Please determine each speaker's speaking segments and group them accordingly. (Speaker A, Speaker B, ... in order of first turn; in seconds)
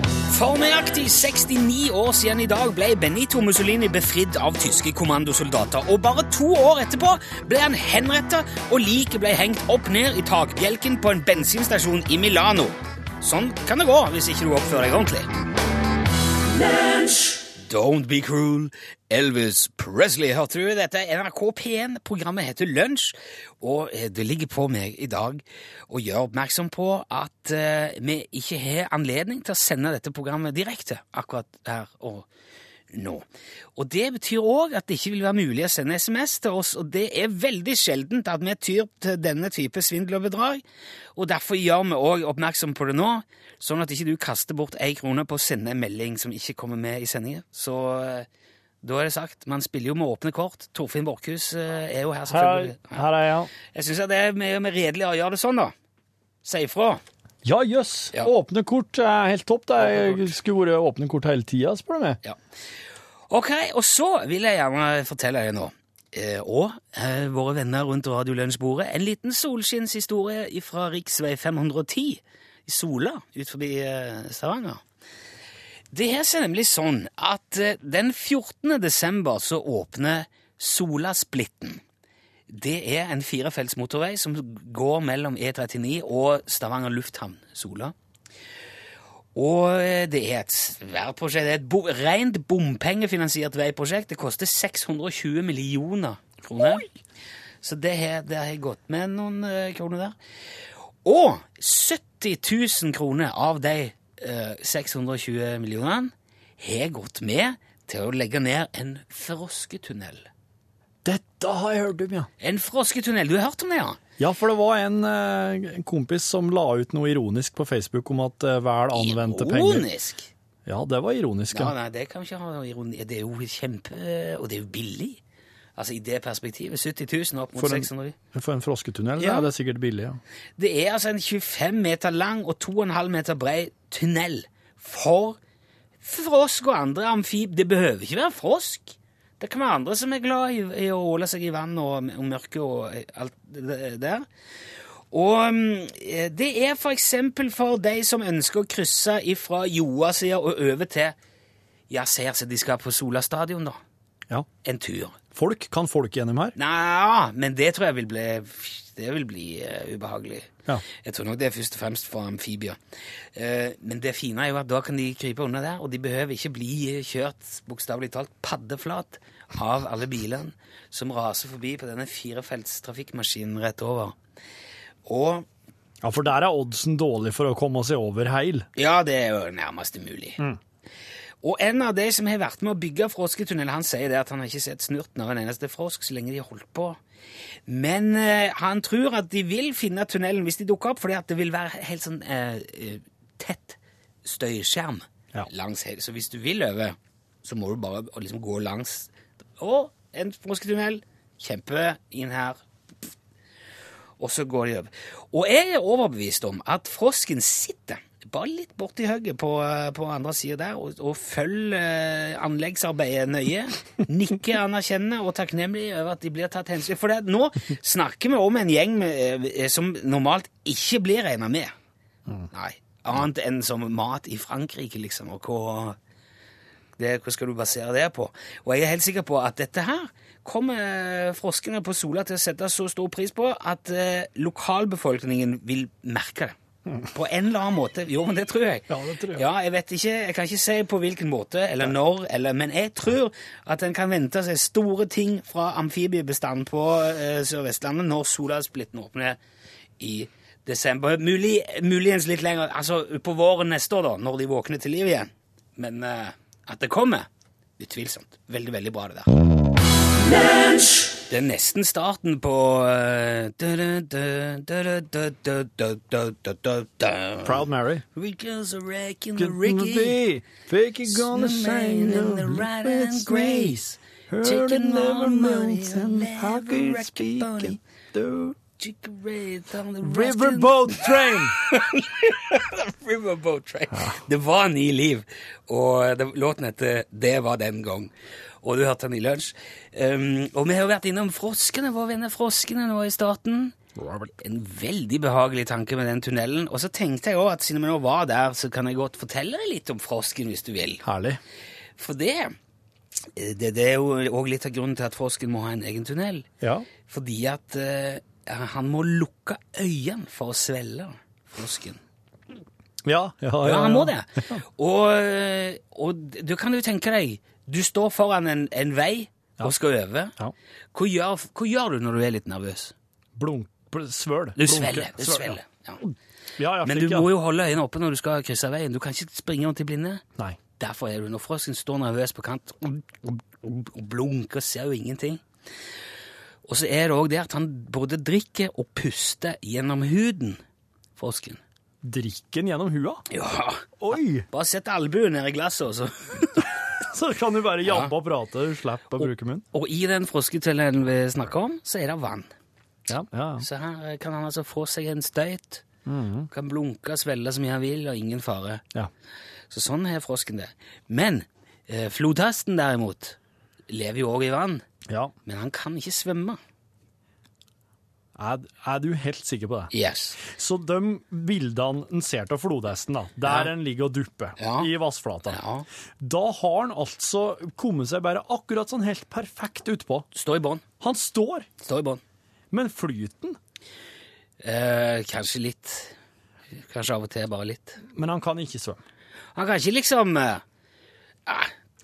Speaker A: 0.3-15.3, 17.6-32.3, 32.9-33.2, 33.8-40.6, 41.2-48.3, 48.8-53.0, 53.7-55.7, 56.4-57.0, 63.3-74.8, 75.9-81.8, 82.5-87.9, 89.3-96.9, 97.6-100.2, 101.0-110.3, 112.4-114.0, 118.9-120.3, 121.5-125.2, 125.8-128.2, 129.2-129.5, 130.6-135.4, 136.0-144.3, 145.1-151.2, 151.9-153.8, 154.6-155.2, 156.6-162.8, 163.3-174.2, 175.1-175.5, 178.8-180.4, 181.4-187.0, 187.7-202.6, 204.2-221.7, 222.5-226.0, 227.0-249.4, 250.0-257.3, 257.8-259.3, 261.3-270.2, 271.1-273.8, 274.4-277.8, 278.8-288.1, 288.6-293.8, 294.4-301.0, 302.0-302.6, 303.4-306.5, 307.1-312.0, 313.6-320.4, 320.9-322.9, 324.6-326.0, 326.8-330.2, 330.8-335.4, 336.6-340.6, 341.2-341.6, 343.3-346.7, 347.9-348.1, 349.7-352.5, 353.6-355.8, 356.5-358.8, 359.7-363.4, 363.9-364.9, 365.4-366.6, 369.9-370.4, 373.4-373.7, 374.6-374.9, 375.5-375.9, 380.3-380.9, 381.8-382.2, 384.6-386.1, 386.8-388.0, 389.6-390.6, 391.5-391.7
Speaker B: 52.3-53.5, 57.5-62.2, 111.0-112.3, 114.2-119.9, 120.7-121.7, 127.6-130.2, 155.3-156.6, 176.0-178.7, 238.9-239.4, 267.4-268.0, 269.4-278.6, 280.0-281.6, 283.9-284.2, 294.0-294.3, 301.0-301.4, 306.6-306.9, 313.0-314.6, 323.4-327.3, 342.0-343.3, 344.0-344.5, 347.0-349.6, 353.1-353.7, 356.1-356.5, 368.4-375.6, 376.2-380.3, 381.0-381.7, 382.7-383.6, 388.1-389.0